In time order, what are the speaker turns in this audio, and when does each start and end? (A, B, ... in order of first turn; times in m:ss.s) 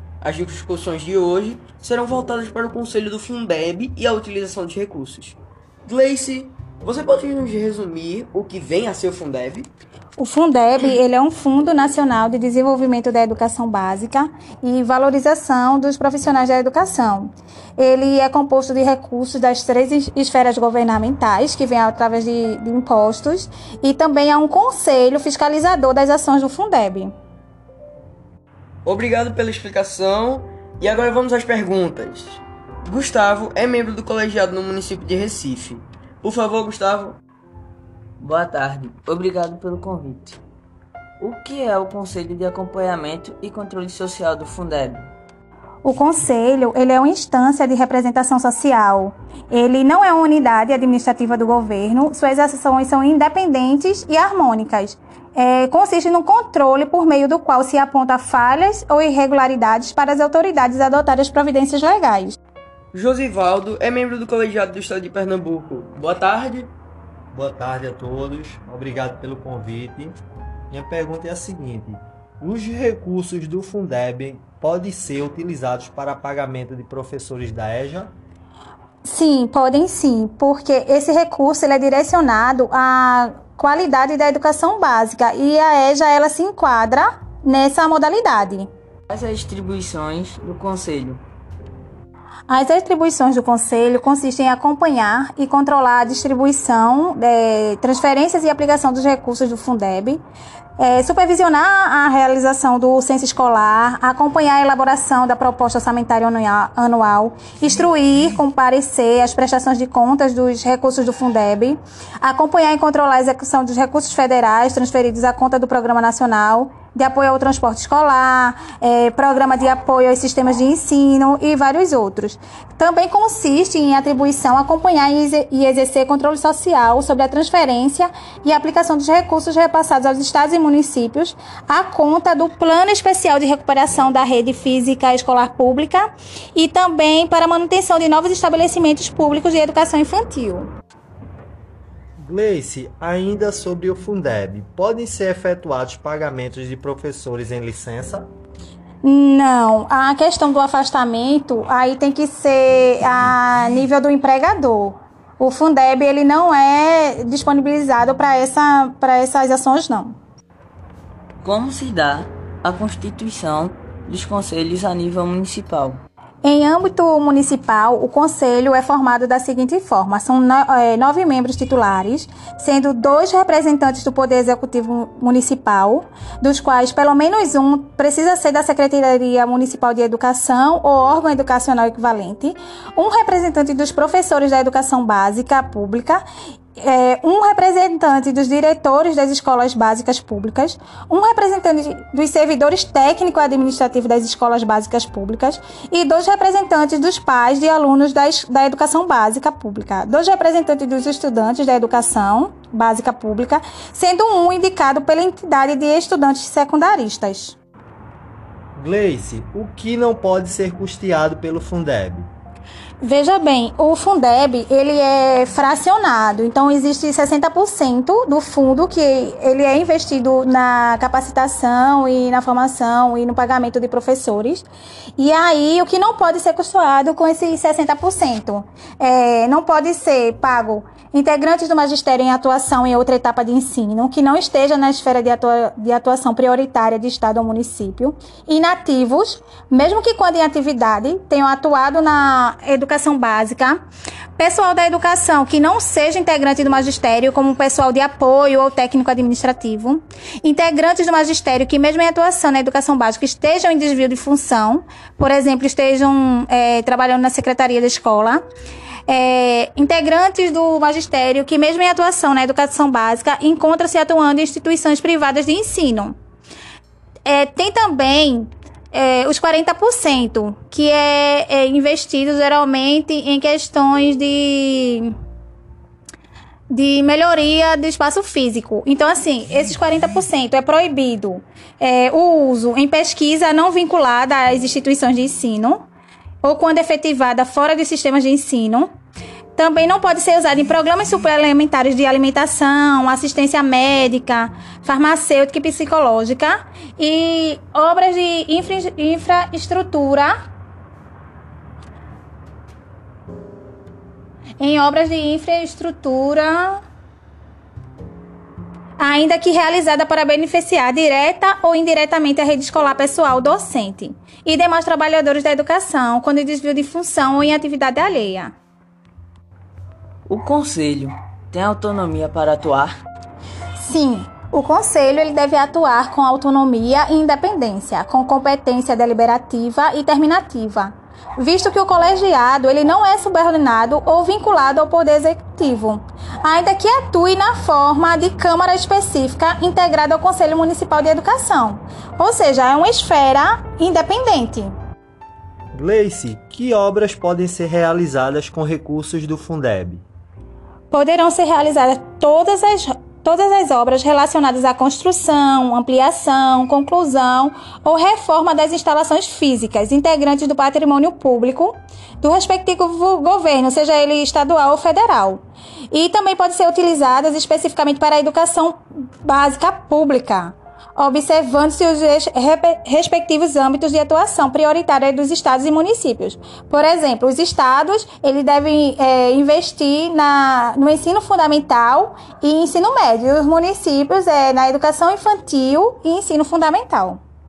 0:00.2-0:09.7 A
0:10.2-0:27.1 B
0:28.8-0:37.2 A
0:38.2-0:40.4 C
0:41.2-0:45.1 C
0:45.8-1:02.4 B
1:02.9-1:06.7 A
1:07.3-1:10.2 D
1:10.7-1:18.1 D
1:19.0-1:28.7 B
1:29.1-1:31.2 C
1:32.5-1:40.2 B
1:40.8-2:20.7 B
2:22.2-2:28.3 D
2:29.0-2:40.2 B
2:41.4-2:46.0 C
2:46.4-3:06.2 B
3:06.8-3:27.6 B
3:28.8-3:32.3 D
3:33.0-4:03.8 B
4:04.4-4:18.4 B
4:19.1-4:26.2 B
4:27.3-4:35.1 B
4:36.7-4:45.8 B
4:46.4-4:48.9 B
4:49.6-5:00.4 B
5:04.6-5:06.8 B
5:09.0-5:18.6 B
5:20.3-5:23.0 C
5:23.8-5:44.7 B
5:45.7-5:50.0 D
5:50.9-6:27.2 B